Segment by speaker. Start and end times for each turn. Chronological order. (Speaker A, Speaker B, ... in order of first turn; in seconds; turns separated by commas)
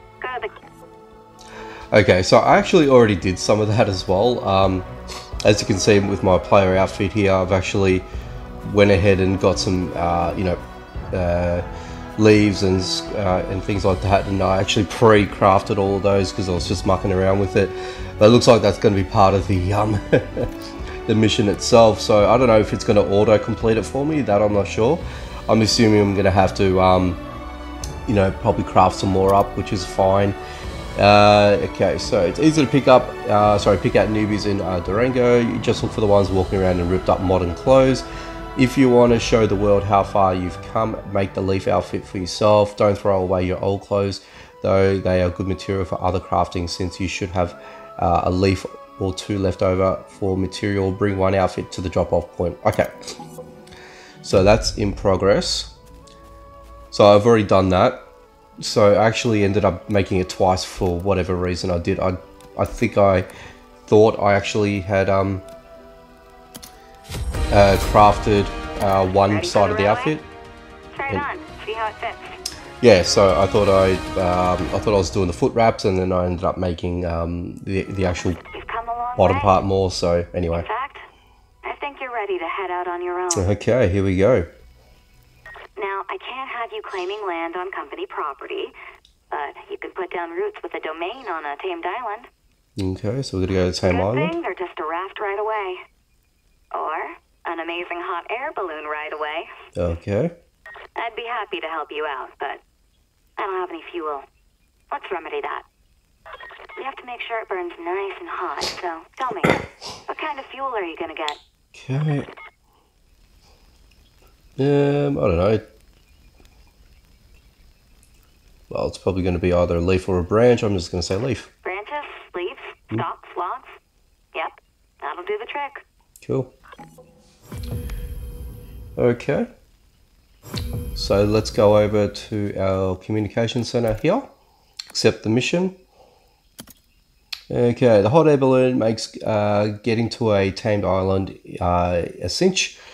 Speaker A: 0.2-0.5, Speaker B: 1.9-4.9, Speaker B: 5.4-8.1, Speaker B: 8.6-10.6, Speaker B: 11.1-11.7, Speaker B: 12.2-20.5, Speaker B: 21.1-27.2, Speaker B: 28.1-30.4, Speaker B: 31.0-38.0, Speaker B: 38.6-53.1, Speaker B: 54.2-55.7, Speaker B: 56.9-58.0, Speaker B: 58.6-63.3, Speaker B: 63.9-65.5, Speaker B: 67.5-70.2, Speaker A: 69.3-70.2, Speaker A: 71.0-72.4, Speaker B: 72.8-78.4, Speaker A: 78.5-79.6, Speaker B: 79.2-80.7, Speaker A: 80.5-81.1, Speaker A: 81.6-83.5, Speaker B: 83.3-84.5, Speaker A: 85.8-88.7, Speaker A: 89.3-92.3, Speaker B: 92.8-94.3, Speaker A: 93.9-95.8, Speaker A: 96.7-99.5, Speaker B: 99.8-100.3, Speaker A: 101.0-102.6, Speaker A: 103.4-104.3, Speaker A: 104.9-105.7, Speaker A: 106.8-111.4, Speaker B: 111.8-112.3, Speaker B: 114.6-115.6, Speaker B: 118.7-121.5, Speaker A: 121.6-123.8, Speaker A: 124.3-125.8, Speaker B: 126.2-126.5, Speaker B: 129.0-129.5, Speaker B: 130.9-134.3, Speaker B: 134.9-135.8, Speaker B: 137.5-142.8